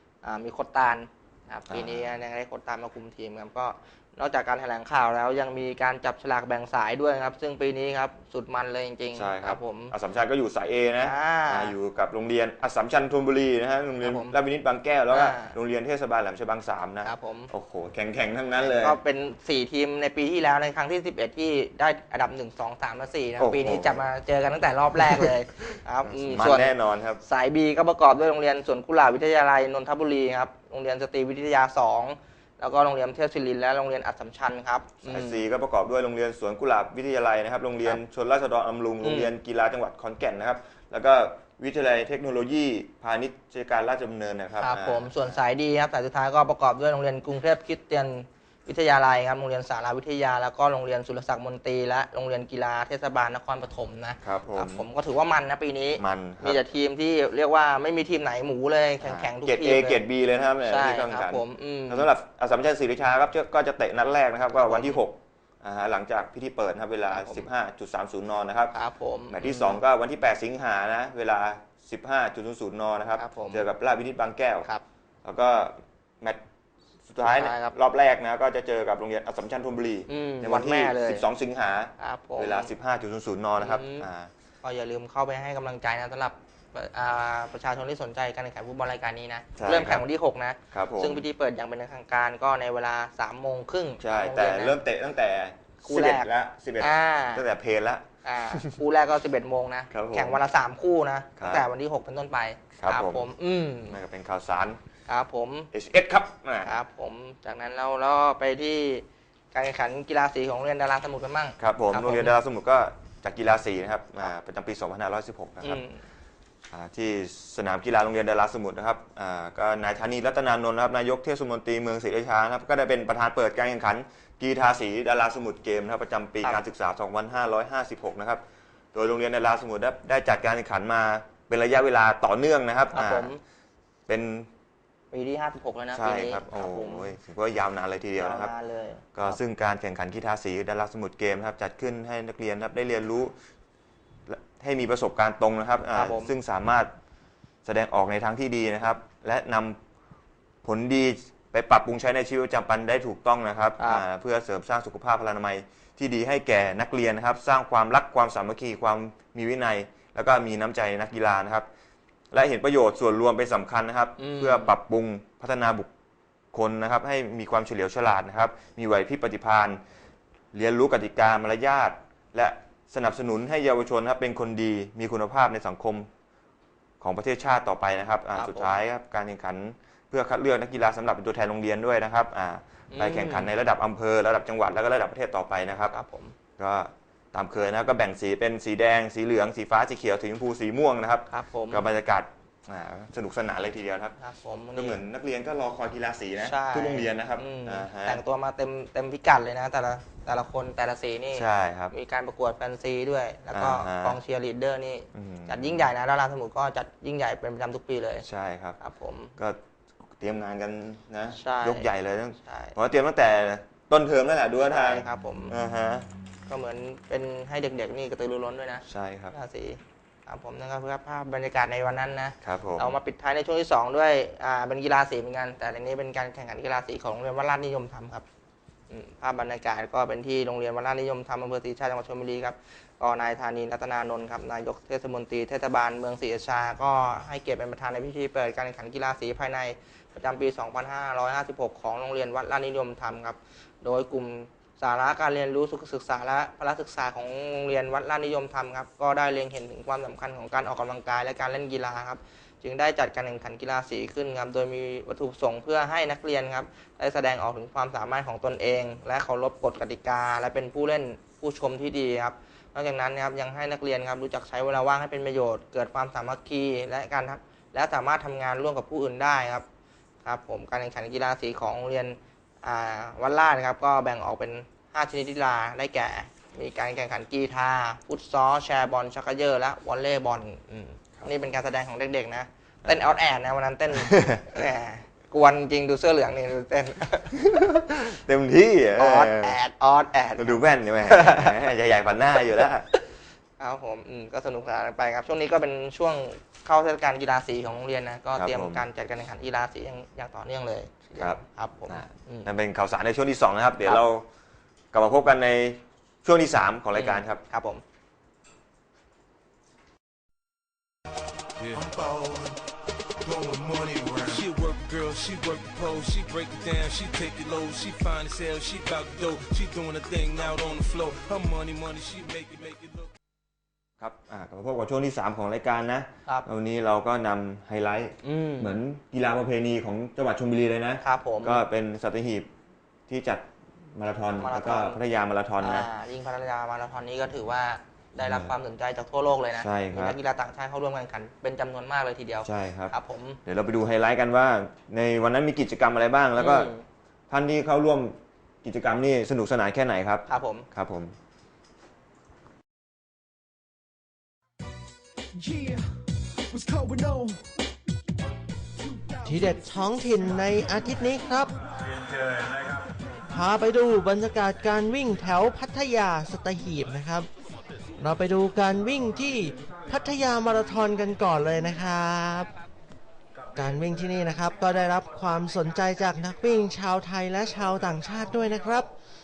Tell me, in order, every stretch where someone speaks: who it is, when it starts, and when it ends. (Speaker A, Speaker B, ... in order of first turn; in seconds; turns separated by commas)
Speaker A: 0.2-9.9, Speaker B: 1.7-2.1, Speaker B: 9.2-19.0, Speaker A: 11.0-11.7, Speaker A: 14.0-14.3, Speaker A: 15.1-15.5, Speaker A: 17.0-17.5, Speaker A: 18.6-35.4, Speaker B: 23.4-24.0, Speaker B: 25.0-27.2, Speaker B: 35.0-45.4, Speaker A: 39.0-39.3, Speaker A: 44.6-60.0, Speaker B: 54.2-54.9, Speaker B: 56.0-56.6, Speaker B: 59.0-68.7, Speaker A: 60.7-62.1, Speaker A: 64.5-65.0, Speaker A: 67.1-67.5, Speaker A: 68.7-69.8, Speaker B: 69.3-74.7, Speaker A: 73.2-73.6, Speaker B: 75.2-76.4, Speaker B: 77.1-84.3, Speaker A: 77.2-77.8, Speaker A: 80.1-81.2, Speaker A: 82.0-82.7, Speaker A: 83.6-84.1, Speaker A: 84.6-94.8, Speaker B: 89.6-90.0, Speaker B: 90.7-91.2, Speaker B: 94.0-98.7, Speaker A: 95.8-96.3, Speaker A: 96.8-97.4, Speaker A: 98.2-104.0, Speaker B: 99.9-100.4, Speaker B: 101.4-101.7, Speaker B: 102.8-103.3, Speaker B: 103.9-104.8, Speaker A: 105.1-105.7, Speaker B: 105.7-106.7, Speaker A: 106.7-112.3, Speaker B: 111.6-115.8, Speaker A: 115.6-116.0, Speaker B: 116.7-128.4, Speaker B: 128.9-133.3, Speaker A: 132.9-133.4, Speaker B: 134.1-134.5, Speaker A: 135.1-137.1, Speaker B: 135.9-138.5, Speaker A: 138.2-139.4, Speaker B: 139.2-143.3, Speaker B: 144.3-146.9, Speaker A: 145.9-146.3, Speaker B: 147.7-149.8, Speaker B: 150.6-161.7, Speaker A: 153.8-154.0, Speaker B: 162.3-165.9, Speaker A: 164.2-164.7, Speaker B: 166.5-169.8, Speaker B: 170.5-176.1, Speaker B: 177.0-185.9, Speaker A: 178.3-178.8, Speaker A: 182.9-183.5, Speaker A: 185.9-186.3, Speaker B: 186.6-194.2, Speaker A: 191.3-191.8, Speaker A: 194.2-195.0, Speaker B: 194.8-198.2, Speaker A: 196.4-208.2, Speaker B: 201.3-201.9, Speaker B: 203.5-204.2, Speaker B: 205.1-205.9, Speaker B: 208.2-208.8, Speaker A: 208.8-209.3, Speaker B: 210.2-216.1, Speaker A: 211.3-211.9, Speaker A: 212.4-212.8, Speaker A: 214.6-215.5, Speaker A: 216.5-228.2, Speaker B: 218.9-219.3, Speaker B: 222.4-222.9, Speaker A: 228.9-269.7, Speaker A: 270.2-287.4, Speaker B: 282.9-283.1, Speaker B: 284.0-284.6, Speaker B: 287.3-289.6, Speaker A: 289.0-291.6, Speaker B: 290.4-292.9, Speaker A: 293.6-302.5, Speaker B: 298.4-298.8, Speaker B: 301.2-304.2, Speaker B: 304.9-307.4, Speaker A: 306.9-307.8, Speaker C: 311.6-312.5, Speaker C: 313.3-323.1, Speaker B: 324.0-332.5, Speaker A: 328.2-328.7, Speaker A: 331.0-331.6, Speaker B: 333.1-335.9, Speaker A: 334.4-335.0, Speaker A: 335.6-343.4, Speaker B: 338.2-338.5, Speaker B: 339.6-340.2, Speaker B: 342.4-342.9, Speaker B: 343.4-346.7, Speaker A: 346.4-346.8, Speaker B: 347.3-351.1, Speaker A: 350.3-350.6, Speaker D: 355.3-357.6, Speaker D: 358.8-359.3, Speaker E: 359.2-361.5, Speaker C: 361.9-362.9, Speaker E: 363.3-367.3, Speaker E: 368.0-372.5, Speaker E: 373.6-378.9